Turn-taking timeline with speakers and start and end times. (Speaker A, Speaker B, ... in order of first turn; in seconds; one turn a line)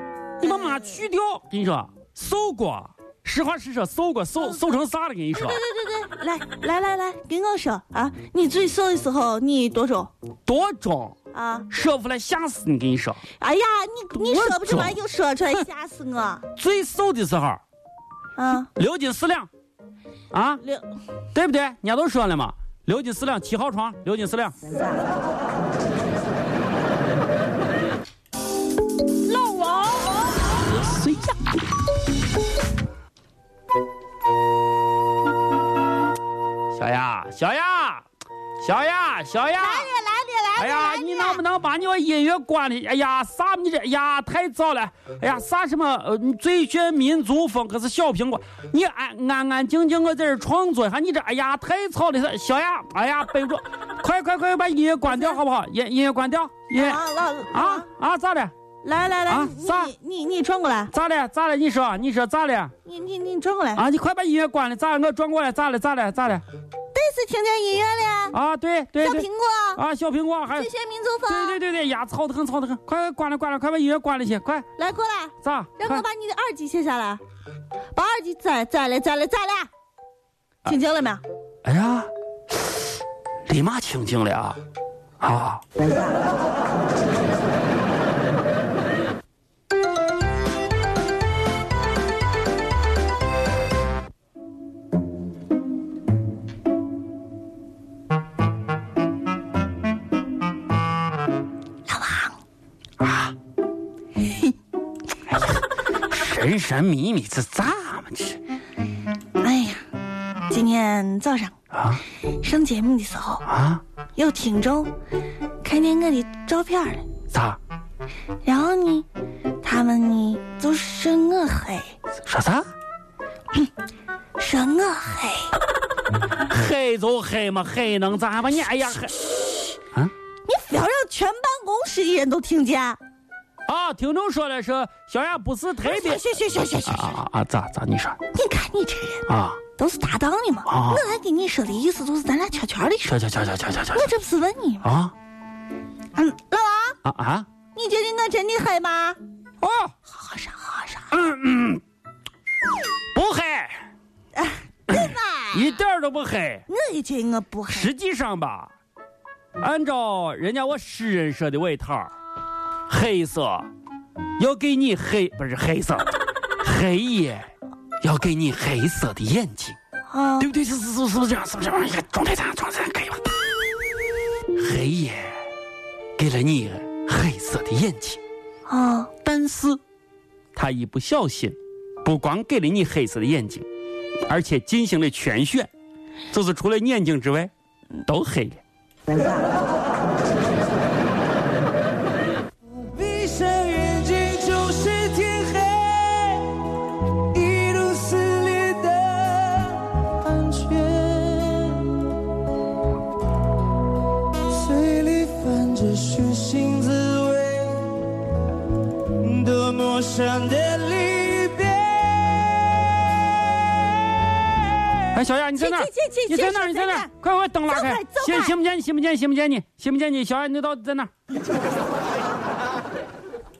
Speaker A: 0.4-5.6
Speaker B: 5.3-10.1
Speaker A: 10.5-11.2
Speaker B: 11.3-11.7
Speaker A: 11.7-13.2
Speaker B: 13.4-16.4
Speaker A: 14.2-15.0
Speaker A: 16.6-17.6
Speaker B: 18.4-18.7
Speaker A: 18.6-19.5
Speaker A: 20.3-20.6
Speaker A: 21.3-24.6
Speaker B: 29.2-30.3
Speaker A: 30.8-31.4
Speaker A: 36.7-38.0
Speaker A: 38.6-39.9
Speaker B: 39.6-41.4
Speaker A: 40.6-58.5
Speaker B: 55.1-55.4
Speaker B: 56.7-57.9
Speaker B: 58.8-60.9
Speaker A: 59.3-59.9
Speaker A: 60.9-62.7
Speaker B: 62.8-63.8
Speaker A: 63.8-66.4
Speaker B: 66.9-68.3
Speaker A: 68.3-70.7
Speaker B: 69.0-69.8
Speaker B: 70.5-71.6
Speaker A: 71.3-74.7
Speaker B: 74.8-77.2
Speaker A: 75.4-76.0
Speaker B: 77.9-79.7
Speaker B: 80.6-81.2
Speaker A: 81.6-82.8
Speaker A: 83.5-84.6
Speaker A: 85.2-85.6
Speaker B: 101.8-102.4
Speaker A: 103.0-103.3
Speaker A: 105.2-108.4
Speaker B: 109.4-109.8
Speaker B: 110.5-111.5
Speaker A: 111.7-112.0
Speaker B: 112.2-113.4
Speaker A: 113.5-113.8
Speaker B: 114.2-114.9
Speaker B: 115.6-117.1
Speaker A: 117.3-117.6
Speaker B: 118.4-119.1
Speaker B: 119.6-122.0
Speaker A: 122.2-122.7
Speaker B: 124.4-125.5
Speaker A: 126.5-129.2
Speaker B: 130.4-133.0
Speaker A: 133.7-136.2
Speaker B: 135.8-137.2
Speaker A: 136.8-138.2
Speaker B: 138.3-139.2
Speaker A: 139.3-139.6
Speaker B: 139.8-143.2
Speaker A: 140.7-141.0
Speaker A: 143.0-144.1
Speaker B: 143.9-144.9
Speaker A: 144.8-145.1
Speaker B: 146.1-147.0
Speaker A: 147.0-147.5
Speaker B: 147.7-149.2
Speaker A: 149.6-149.9
Speaker B: 150.1-151.1
Speaker A: 151.1-151.8
Speaker A: 153.1-153.8
Speaker B: 154.3-155.7
Speaker A: 154.9-156.7
Speaker B: 156.7-157.9
Speaker A: 157.7-158.7
Speaker A: 159.6-162.1
Speaker A: 162.9-163.7
Speaker A: 164.4-167.5
Speaker A: 168.0-169.8
Speaker B: 170.1-170.5
Speaker A: 170.4-173.2
Speaker A: 174.6-175.4
Speaker A: 176.2-178.2
Speaker B: 178.7-179.1
Speaker A: 179.2-179.8
Speaker A: 180.5-183.7
Speaker A: 184.3-185.7
Speaker A: 186.3-187.5
Speaker A: 188.1-188.6
Speaker C: 192.7-196.6
Speaker C: 197.3-202.0
Speaker C: 204.4-208.0
Speaker C: 209.1-212.8
Speaker A: 215.1-221.1
Speaker B: 215.6-217.1
Speaker B: 217.7-218.5